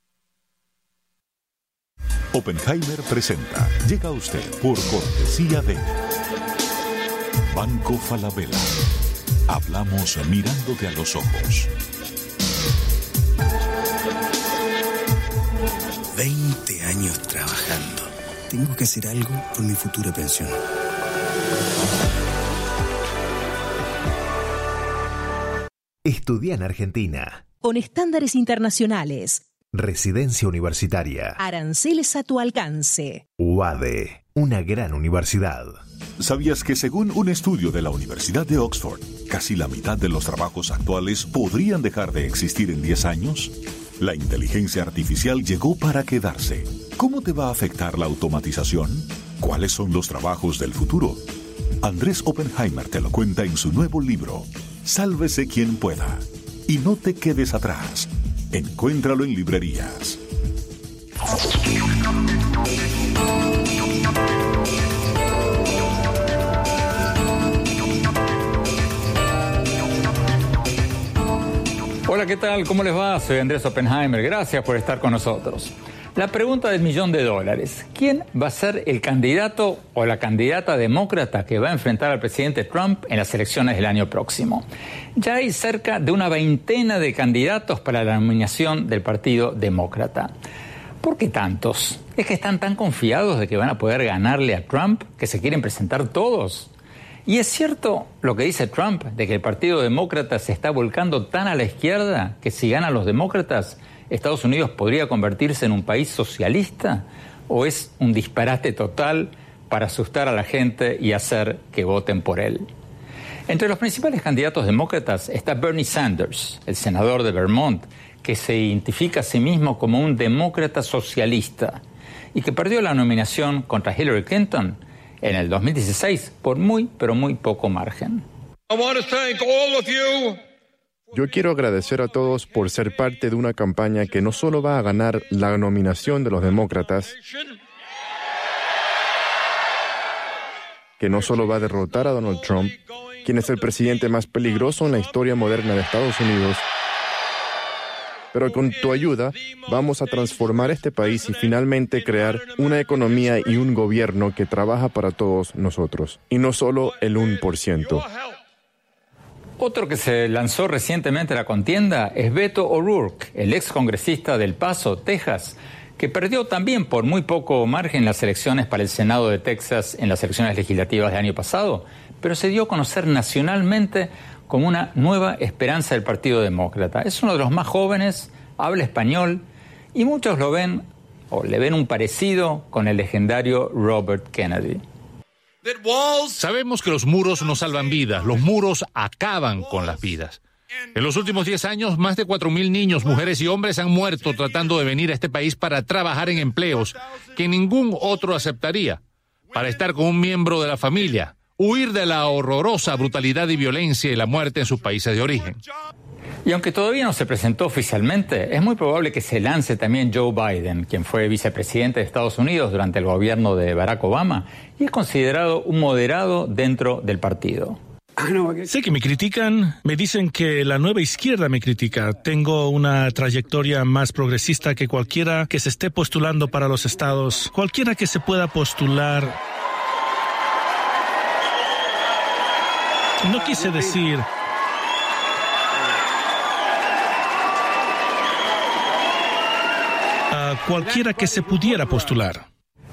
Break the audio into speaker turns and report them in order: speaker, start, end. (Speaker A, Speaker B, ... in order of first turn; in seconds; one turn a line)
Speaker A: 2.3-6.0
Speaker A: 7.5-8.8
Speaker A: 9.5-11.7
Speaker B: 16.1-20.6
Speaker C: 26.0-27.5
Speaker D: 27.6-29.5
Speaker C: 29.7-31.4
Speaker D: 31.4-33.2
Speaker C: 33.4-35.8
Speaker A: 36.2-51.2
Speaker A: 51.8-60.2
Speaker E: 72.0-84.6
Speaker E: 85.2-90.3
Speaker E: 91.0-96.7
Speaker E: 97.2-112.7
Speaker E: 113.5-121.8
Speaker E: 122.3-128.2
Speaker F: 131.1-137.2
Speaker F: 141.0-146.6
Speaker F: 148.3-158.1
Speaker E: 159.6-179.4
Speaker E: 179.9-184.8
Speaker G: 185.7-190.4
Speaker G: 190.9-199.0
Speaker G: 199.5-205.6
Speaker E: 206.4-217.8
Speaker H: 218.3-229.3
Speaker H: 233.2-234.3
Speaker H: 240.3-242.4